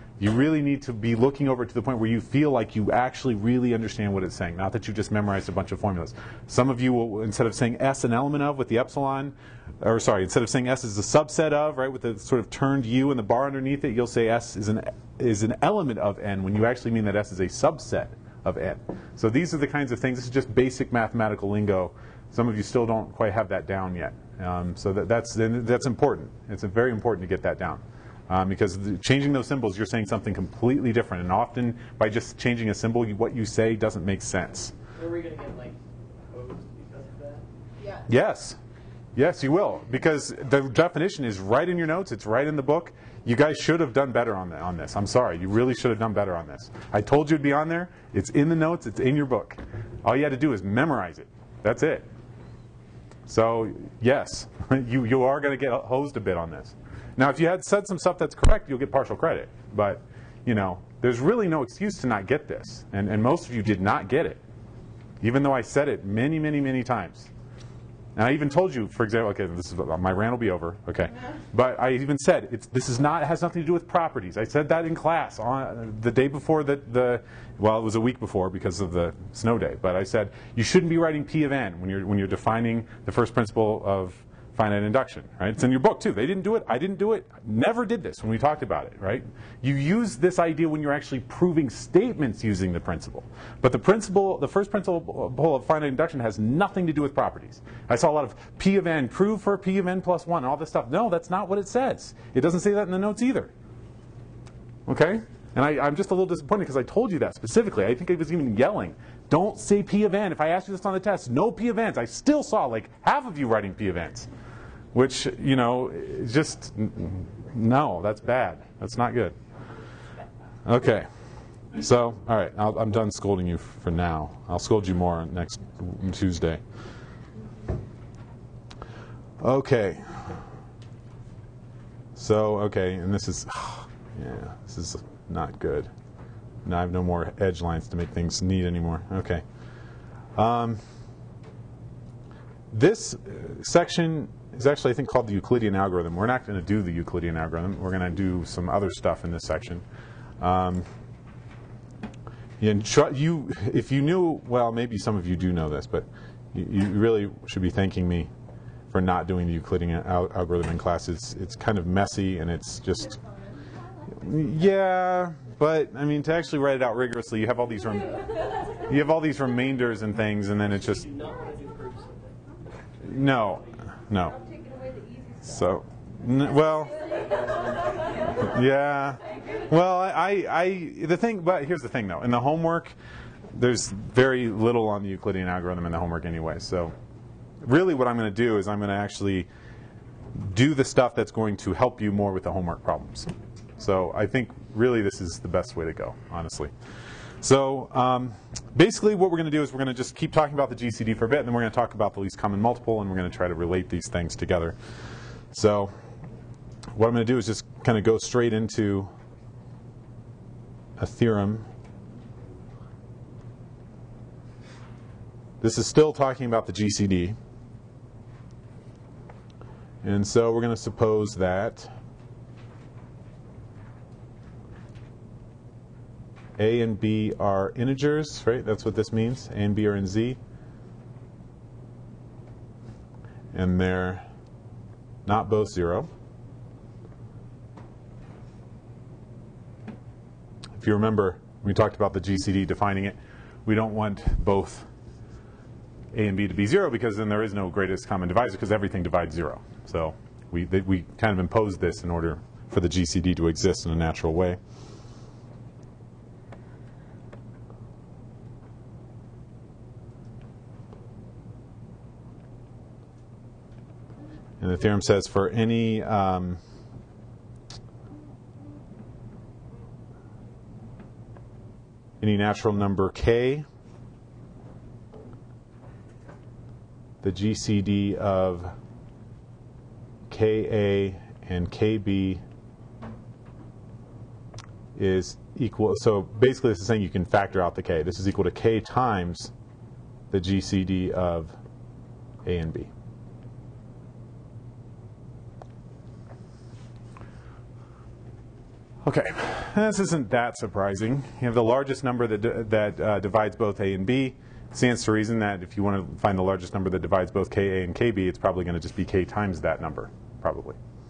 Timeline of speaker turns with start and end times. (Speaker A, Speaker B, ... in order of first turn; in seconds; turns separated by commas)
Speaker A: 0.2-34.7, Speaker B: 35.0-37.5, Speaker C: 37.8-38.1, Speaker A: 38.1-38.6, Speaker A: 39.1-52.1, Speaker A: 53.3-64.4, Speaker A: 65.2-67.3, Speaker A: 68.2-103.5, Speaker A: 104.9-114.3, Speaker A: 114.9-119.4, Speaker A: 120.7-121.1, Speaker A: 121.7-126.6, Speaker A: 129.4-130.3, Speaker A: 132.2-135.9, Speaker A: 136.7-139.4, Speaker A: 140.3-140.8, Speaker A: 142.7-149.8, Speaker A: 150.4-150.9, Speaker A: 152.6-158.3, Speaker A: 158.9-163.2, Speaker C: 163.0-164.6, Speaker A: 164.2-171.1, Speaker B: 170.6-174.4, Speaker A: 173.0-174.4, Speaker C: 174.2-175.8, Speaker A: 175.4-177.2, Speaker C: 176.4-178.6, Speaker B: 177.3-177.6, Speaker A: 178.3-182.9, Speaker C: 179.3-179.6, Speaker A: 183.5-186.9, Speaker A: 187.6-189.5, Speaker A: 190.3-196.7, Speaker A: 197.4-204.8, Speaker A: 205.5-205.9, Speaker A: 206.9-209.1, Speaker A: 211.0-211.7, Speaker A: 215.6-217.4, Speaker A: 220.0-221.9, Speaker A: 226.6-230.4, Speaker A: 233.5-234.2, Speaker A: 235.3-236.1, Speaker A: 240.8-244.9, Speaker A: 246.1-254.6, Speaker A: 264.6-266.6, Speaker A: 272.2-273.7, Speaker A: 277.2-278.8, Speaker A: 280.3-282.4, Speaker A: 285.0-289.5, Speaker A: 290.3-291.6, Speaker A: 292.4-292.9, Speaker A: 299.0-310.8